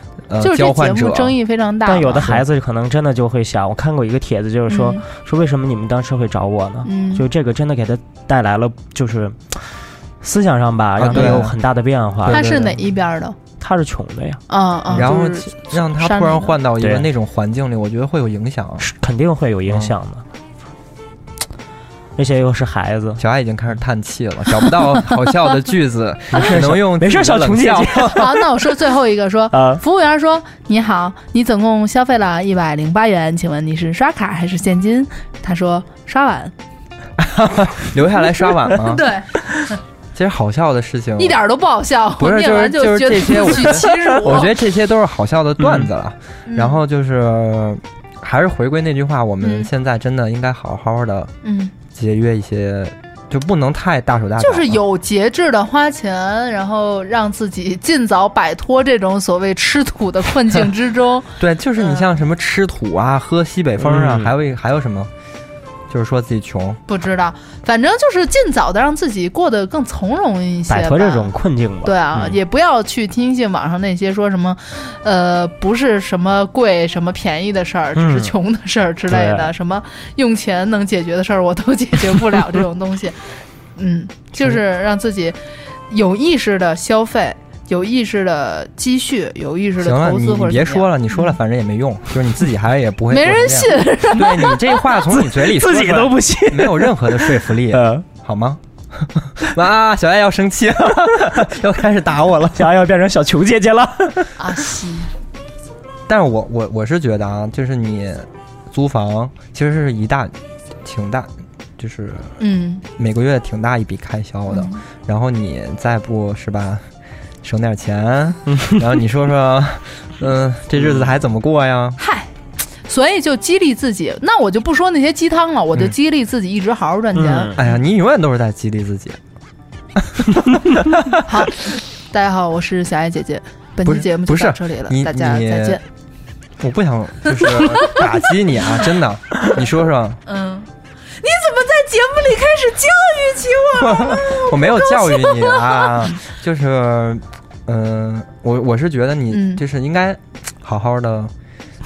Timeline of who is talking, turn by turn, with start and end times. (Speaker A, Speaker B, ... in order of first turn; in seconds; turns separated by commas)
Speaker A: 0.3-1.4, Speaker B: 0.4-2.3, Speaker C: 1.9-12.4, Speaker A: 2.2-2.4, Speaker B: 4.7-5.0, Speaker B: 6.8-7.2, Speaker A: 11.0-11.6, Speaker A: 12.2-12.8, Speaker B: 12.3-13.4, Speaker C: 13.6-15.1, Speaker B: 14.5-16.6, Speaker A: 14.9-18.9, Speaker C: 16.8-17.1, Speaker C: 18.8-20.2, Speaker A: 19.7-19.9, Speaker C: 22.2-23.2, Speaker A: 23.2-28.3, Speaker C: 26.3-28.5, Speaker B: 28.2-36.5, Speaker C: 29.5-29.8, Speaker A: 37.2-39.1, Speaker B: 38.7-39.3, Speaker A: 40.1-41.4, Speaker B: 41.2-44.5, Speaker A: 42.2-51.3, Speaker C: 45.6-45.9, Speaker B: 46.5-46.8, Speaker B: 49.4-49.7, Speaker B: 51.4-51.7, Speaker A: 51.9-54.8, Speaker B: 54.4-62.1, Speaker A: 61.4-65.1, Speaker C: 63.8-64.3, Speaker A: 65.9-66.8, Speaker B: 66.9-71.3, Speaker C: 70.7-72.4, Speaker B: 71.8-83.2, Speaker C: 78.0-78.3, Speaker C: 79.1-79.5, Speaker B: 83.8-85.4, Speaker B: 85.9-91.3, Speaker A: 89.8-102.7, Speaker B: 93.1-94.6, Speaker C: 95.1-98.0, Speaker C: 102.6-104.3, Speaker B: 104.4-105.1, Speaker A: 106.1-112.3, Speaker B: 112.4-112.8, Speaker A: 113.0-116.8, Speaker B: 114.5-114.8, Speaker A: 117.4-122.0, Speaker C: 120.8-121.1, Speaker B: 122.0-122.3, Speaker B: 122.9-127.7, Speaker C: 127.1-127.6, Speaker A: 127.6-129.2, Speaker A: 130.0-130.8, Speaker B: 131.2-135.8, Speaker A: 133.8-135.8, Speaker A: 136.6-140.2, Speaker B: 137.3-138.0, Speaker B: 140.3-140.7, Speaker B: 141.2-146.2, Speaker A: 143.8-151.3, Speaker B: 149.3-149.6